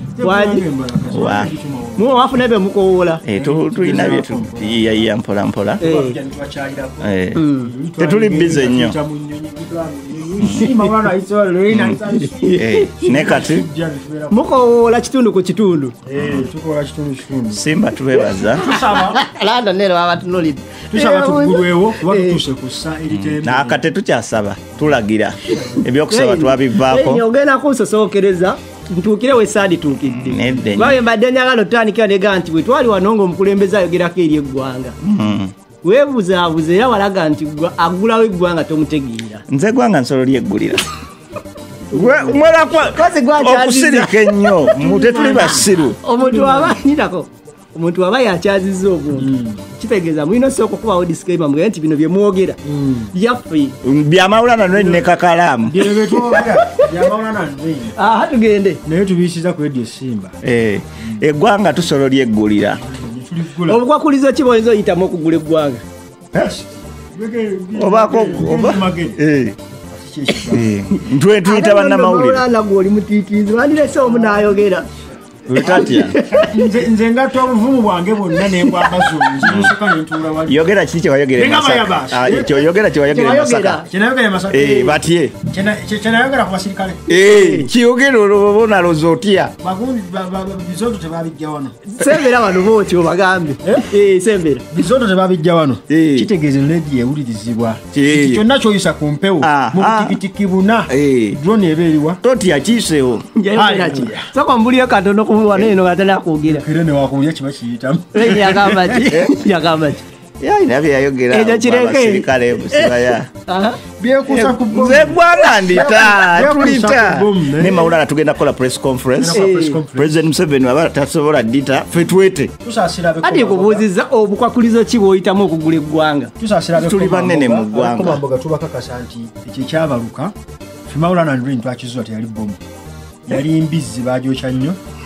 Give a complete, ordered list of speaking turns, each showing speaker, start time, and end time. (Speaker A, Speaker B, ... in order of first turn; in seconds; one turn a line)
Speaker A: 0.2-2.3
Speaker B: 0.2-0.6
Speaker C: 1.1-1.5
Speaker B: 2.0-3.2
Speaker C: 3.2-5.8
Speaker A: 3.3-5.1
Speaker A: 5.8-14.5
Speaker B: 5.8-6.2
Speaker C: 7.0-7.4
Speaker B: 7.3-7.7
Speaker C: 8.0-8.9
Speaker B: 10.4-10.9
Speaker C: 10.4-10.7
Speaker C: 11.7-13.7
Speaker B: 12.1-12.8
Speaker B: 14.3-15.9
Speaker A: 16.1-17.6
Speaker C: 16.1-16.5
Speaker C: 17.5-18.6
Speaker B: 18.2-22.4
Speaker A: 18.6-19.2
Speaker A: 20.9-23.8
Speaker C: 23.1-27.2
Speaker A: 25.5-25.8
Speaker B: 26.1-35.0
Speaker C: 30.1-31.0
Speaker C: 35.0-35.5
Speaker B: 35.8-39.4
Speaker C: 39.5-40.9
Speaker B: 41.9-44.4
Speaker C: 41.9-46.0
Speaker A: 44.7-46.8
Speaker B: 46.0-52.6
Speaker A: 49.2-49.6
Speaker A: 52.6-53.1
Speaker B: 53.1-53.8
Speaker C: 53.8-56.4
Speaker A: 54.7-55.0
Speaker A: 55.6-57.9
Speaker B: 56.5-56.9
Speaker B: 58.0-58.8
Speaker A: 58.8-60.4
Speaker C: 60.4-62.8
Speaker A: 62.8-63.8
Speaker B: 63.7-65.8
Speaker A: 66.3-69.2
Speaker C: 67.7-69.5
Speaker A: 69.9-70.7
Speaker C: 70.5-72.4
Speaker B: 71.4-74.8
Speaker A: 74.0-74.7
Speaker C: 75.5-76.1
Speaker B: 75.6-76.6
Speaker A: 75.6-80.6
Speaker C: 79.4-79.7
Speaker C: 80.5-83.8
Speaker A: 81.3-82.6
Speaker B: 83.1-83.8
Speaker A: 83.8-87.1
Speaker C: 84.5-85.3
Speaker C: 87.1-89.5
Speaker B: 87.2-87.7
Speaker A: 89.6-91.7
Speaker B: 91.9-94.7
Speaker A: 94.7-102.2
Speaker C: 95.9-96.3
Speaker C: 97.9-98.4
Speaker C: 99.4-100.2
Speaker C: 100.9-101.4
Speaker C: 102.2-103.2
Speaker B: 103.3-106.6
Speaker A: 103.5-104.3
Speaker A: 106.5-109.1
Speaker B: 108.1-110.0
Speaker C: 109.1-109.3
Speaker C: 110.4-113.3
Speaker B: 111.3-113.8
Speaker A: 114.0-117.9
Speaker C: 114.3-122.5
Speaker A: 119.2-120.2
Speaker B: 119.3-119.8
Speaker A: 122.6-123.8
Speaker B: 123.2-126.3
Speaker A: 126.4-130.3
Speaker C: 126.8-128.2
Speaker A: 130.9-132.6
Speaker A: 133.2-134.8